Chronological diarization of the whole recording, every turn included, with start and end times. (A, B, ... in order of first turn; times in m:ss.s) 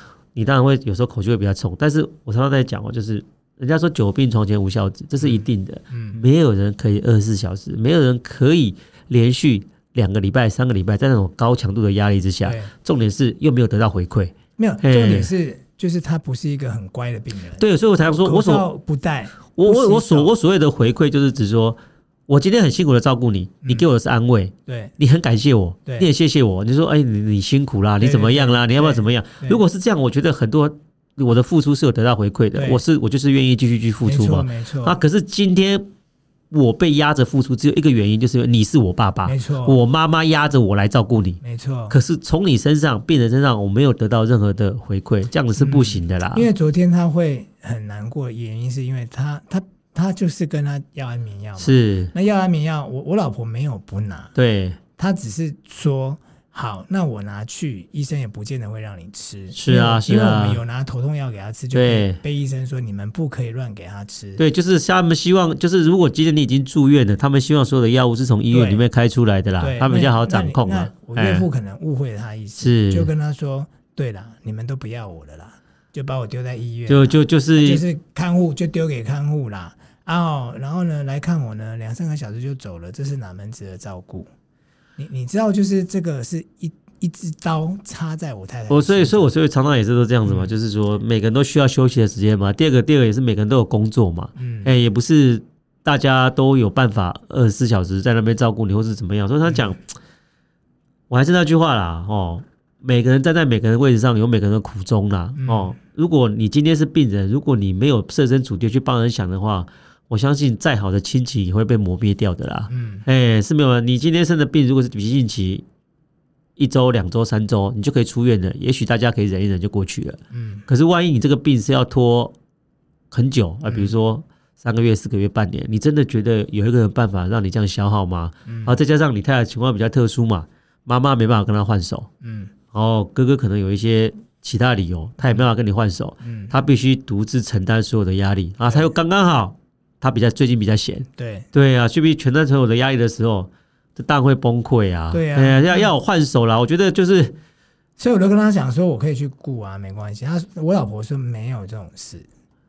0:00.3-0:15.3 A
0:05.2-0:06.2 B
0:12.4-0:12.7 B
0:14.6-0:17.6 B
0:17.6-0:18.7 A
0:18.2-0:20.3 B
0:19.6-0:35.9 A
0:24.6-0:24.9 B
0:28.0-0:29.6 B
0:32.5-0:32.8 B
0:34.0-0:35.0 B
0:36.5-0:46.5 A
0:39.2-0:39.8 B
0:41.4-0:42.0 B
0:45.6-0:54.3 B
0:51.6-0:52.1 A
0:54.4-0:54.8 A
0:55.0-1:04.4 B
0:59.5-1:00.6 A
1:01.7-1:02.2 A
1:04.4-1:11.5 A
1:08.5-1:08.8 B
1:09.6-1:24.3 B
1:12.6-1:13.1 A
1:16.9-1:17.8 A
1:25.0-1:29.3 B
1:28.7-1:39.9 A
1:30.2-1:30.5 B
1:34.4-1:34.7 B
1:41.1-1:55.6 A
1:45.4-1:45.7 B
1:52.7-1:53.0 B
1:56.6-2:02.3 A
2:00.3-2:00.6 B
2:03.1-2:12.1 A
2:03.6-2:03.9 B
2:08.4-2:08.8 B
2:12.2-2:12.5 B
2:12.7-2:27.3 A
2:16.2-2:16.6 B
2:18.6-2:18.9 B
2:21.1-2:21.5 B
2:25.1-2:25.9 B
2:28.0-2:32.2 B